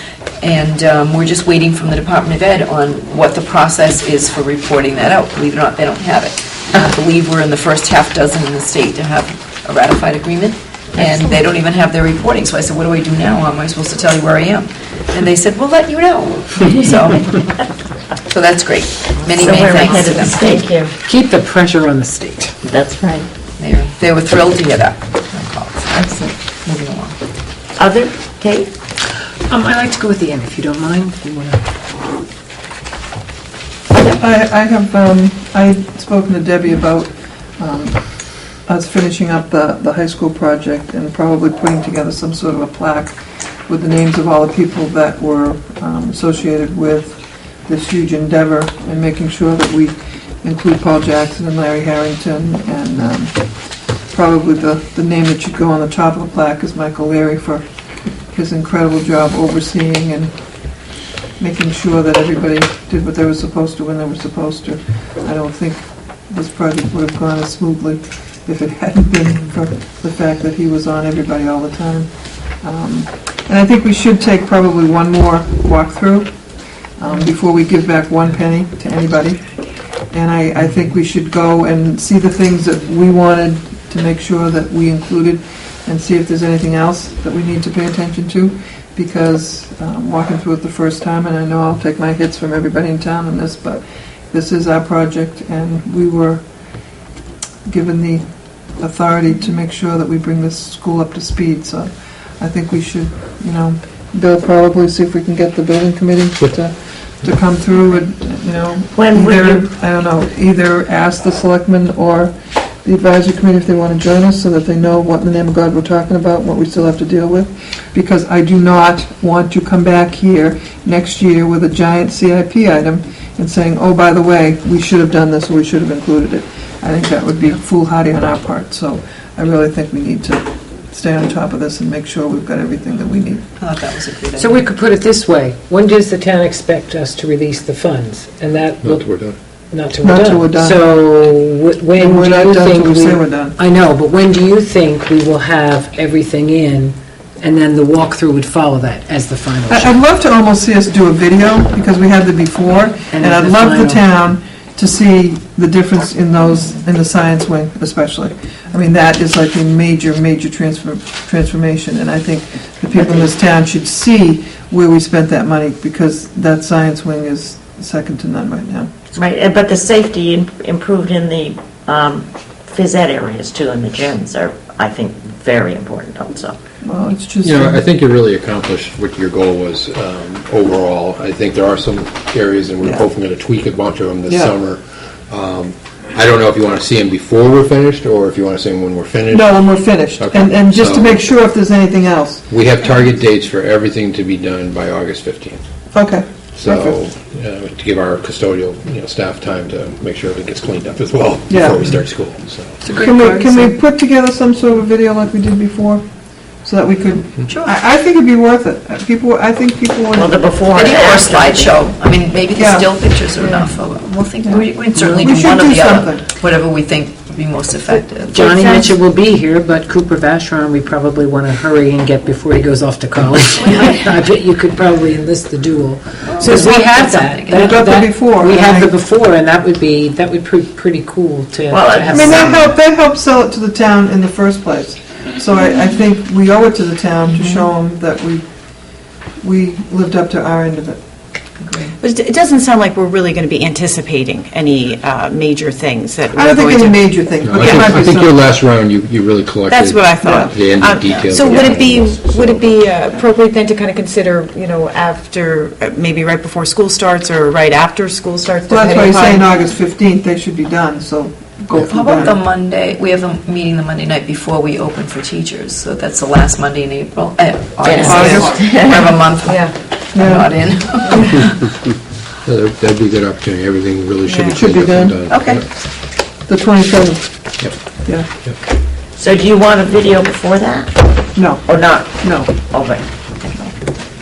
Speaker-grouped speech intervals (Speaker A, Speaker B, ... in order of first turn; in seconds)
Speaker A: 0.4-17.4, 18.3-20.6, 23.6-27.2, 133.6-134.7, 202.8-203.8, 207.4-207.7, 210.7-218.9, 223.6-224.1, 226.3-227.8, 241.6-241.9, 261.8-271.6
Speaker B: 19.3-20.9, 22.6-23.3, 27.8-28.7, 109.0-109.7, 162.9-163.3, 169.2-176.6, 210.1-211.8, 231.7-232.6, 267.8-269.2, 275.3-275.6, 279.2-281.1, 281.7-283.7
Speaker C: 21.1-22.5, 29.5-31.6, 134.4-139.1, 139.7-150.0, 153.1-154.0, 215.0-215.4, 218.3-232.7
Speaker D: 34.0-43.2, 43.7-53.4, 54.1-60.3, 61.4-72.1, 72.6-76.3, 77.0-96.4, 97.7-98.2, 98.8-133.4, 140.0-140.8, 142.0-143.6, 149.7-168.9, 176.8-177.8, 182.8-183.1, 184.3-184.6, 189.3-192.4, 195.9-197.0, 201.5-201.8, 202.9-206.1, 206.6-210.4, 212.6-213.7, 214.4-216.2, 227.5-228.9, 232.1-238.5, 239.4-241.0, 246.3-248.4, 250.2-250.6, 258.7-262.4, 268.0-268.6, 270.1-270.5, 274.5-275.2, 276.5-277.3, 281.4-281.7, 282.2-282.5
Speaker E: 138.8-139.4, 177.4-191.2, 192.5-195.6, 196.6-202.8, 247.4-253.0, 272.4-275.6
Speaker F: 242.0-247.0, 249.7-259.5, 274.3-274.6